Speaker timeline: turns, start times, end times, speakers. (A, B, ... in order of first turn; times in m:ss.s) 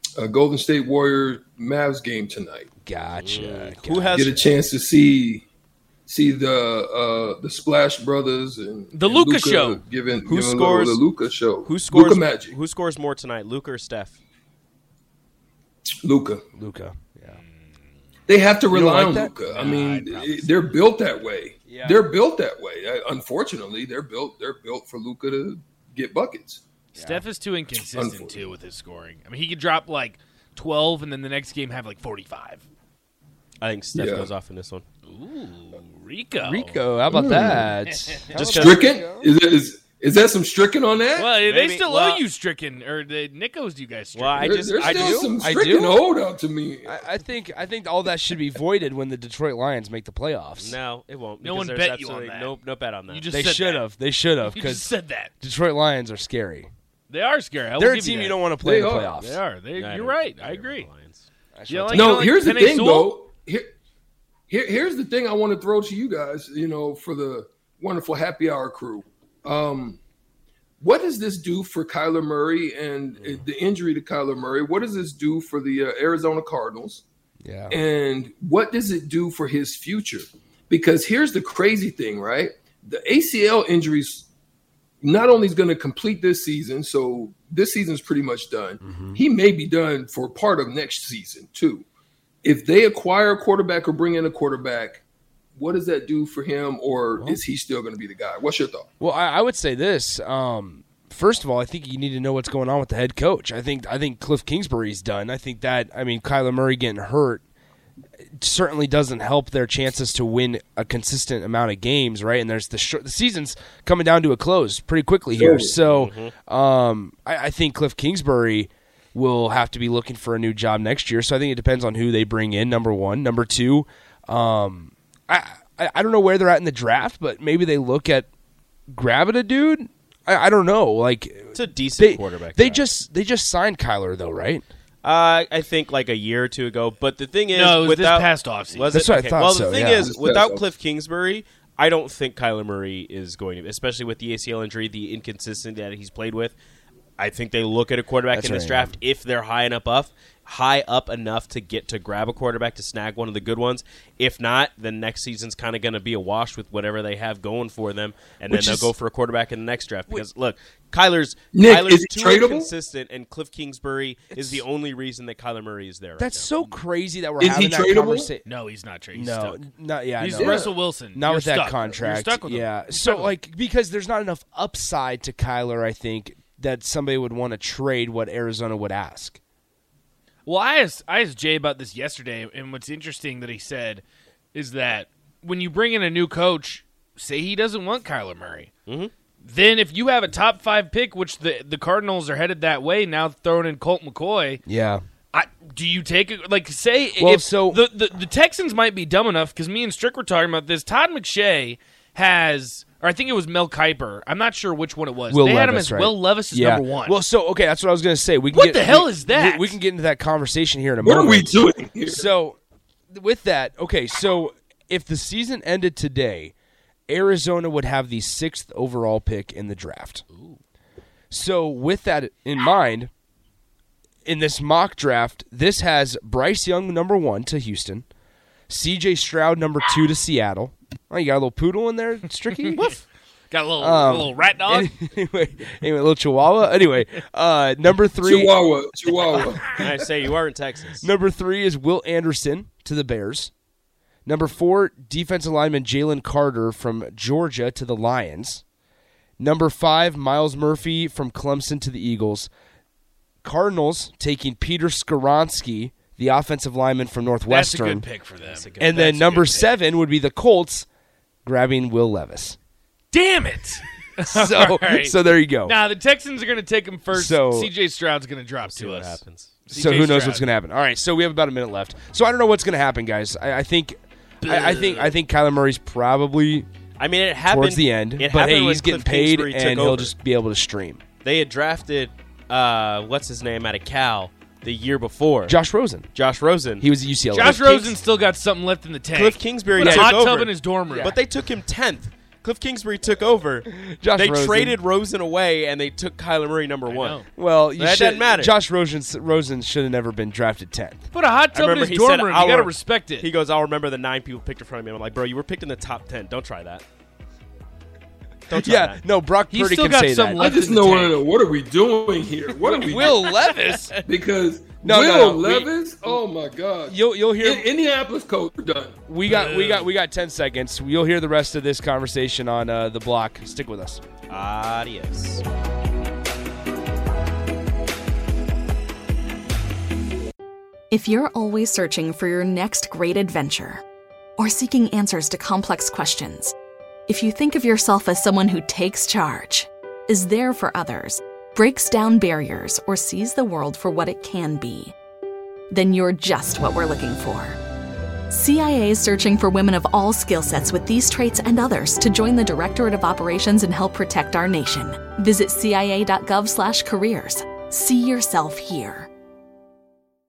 0:00.2-0:02.7 A
0:02.8-0:04.4 B
0:03.2-0:04.4 C
0:04.1-0:05.4 A
0:06.1-0:12.6 A
0:08.9-0:09.8 D
0:10.2-0:11.0 C
0:11.6-0:14.2 C
0:16.0-0:16.4 A
0:16.6-0:17.4 B
0:18.3-0:26.6 A
0:18.7-0:19.4 B
0:19.5-0:20.8 D
0:21.7-0:22.1 B
0:26.9-0:32.6 D
0:27.0-0:27.2 B
0:27.9-0:28.5 A
0:33.6-0:34.8 C
0:33.9-0:34.3 A
0:35.1-0:36.8 D
0:36.4-0:39.3 B
0:37.1-0:37.7 A
0:38.3-0:38.9 C
0:38.5-0:41.4 A
0:41.2-0:44.7 D
0:41.4-0:42.2 C
0:44.1-0:45.2 C
0:44.4-0:47.0 A
0:44.8-0:46.0 B
0:46.8-0:50.8 B
0:50.6-0:53.3 C
0:51.4-0:52.5 D
0:53.1-0:53.8 D
0:53.3-0:56.7 B
0:54.4-0:55.3 D
0:57.1-0:58.4 D
0:57.8-0:59.4 B
0:58.6-0:59.2 A
0:59.2-1:00.9 D
0:59.8-1:01.3 C
1:01.6-1:02.3 B
1:01.7-1:03.1 D
1:01.9-1:03.7 A
1:04.5-1:10.0 A
1:10.8-1:17.0 A
1:17.4-1:17.8 B
1:17.7-1:24.2 A
1:25.0-1:31.8 A
1:28.8-1:29.2 B
1:32.4-1:35.0 A
1:35.6-1:38.8 A
1:39.0-1:47.4 B
1:48.4-2:08.3 B
1:55.4-1:55.7 A
1:55.8-1:56.3 C
2:08.9-2:14.6 B
2:11.5-2:12.9 C
2:15.0-2:26.5 C
2:17.5-2:19.0 D
2:18.9-2:20.1 B
2:20.0-2:20.6 A
2:27.2-2:46.5 C
2:28.3-2:28.9 B
2:38.5-2:38.9 B
2:41.5-2:42.7 A
2:44.3-2:44.6 B
2:46.2-2:48.4 B
2:47.4-2:48.3 A
2:48.4-2:49.6 D
2:49.1-2:59.4 B
2:50.2-2:53.3 D
2:50.4-2:50.7 A
3:00.4-3:04.0 D
3:04.5-3:08.7 D
3:09.4-3:14.6 D
3:14.6-3:15.0 B
3:15.3-3:27.2 D
3:17.2-3:17.8 B
3:25.3-3:32.6 B
3:28.5-3:29.8 D
3:31.0-3:32.3 A
3:33.1-3:36.5 B
3:37.1-3:40.2 B
3:40.3-3:40.6 D
3:41.3-3:43.1 B
3:44.2-3:48.0 B
3:48.7-3:52.9 B
3:53.5-3:54.9 D
3:53.8-3:58.5 B
3:58.2-3:59.9 A
3:59.8-4:01.0 C
4:01.0-4:03.5 B
4:04.2-4:08.6 B
4:09.4-4:12.5 B
4:13.4-4:18.1 B
4:17.5-4:19.6 D
4:18.4-4:19.0 C
4:18.8-4:20.8 B
4:21.4-4:22.6 B
4:23.1-4:25.1 D
4:24.2-4:25.8 B
4:25.6-4:30.5 D
4:27.1-4:27.7 B
4:28.6-4:29.7 C
4:29.7-4:36.7 B
4:34.4-4:35.1 D
4:37.0-4:40.1 C
4:37.4-4:41.0 B
4:41.2-4:45.6 C
4:45.5-4:46.1 B
4:46.1-4:48.0 C
4:46.8-4:47.8 B
4:47.3-4:51.2 D
4:49.1-4:57.2 C
4:49.8-4:50.2 B
4:50.8-4:51.2 B
4:53.6-4:54.8 B
4:56.8-4:57.2 D
4:57.3-5:01.1 B
4:57.8-4:58.5 C
5:01.1-5:03.3 D
5:01.5-5:06.8 C
5:08.5-5:09.0 C
5:08.5-5:10.4 B
5:09.5-5:11.2 D
5:10.4-5:13.3 A
5:12.6-5:13.9 B
5:13.3-5:13.6 D
5:14.0-5:19.0 A
5:14.8-5:16.2 B
5:16.9-5:17.6 B
5:19.1-5:24.0 B
5:19.2-5:19.9 D
5:24.3-5:25.4 C
5:30.9-5:33.8 E
5:34.4-5:36.5 E
5:37.1-5:44.9 E
5:45.7-5:47.6 E
5:48.3-5:59.1 E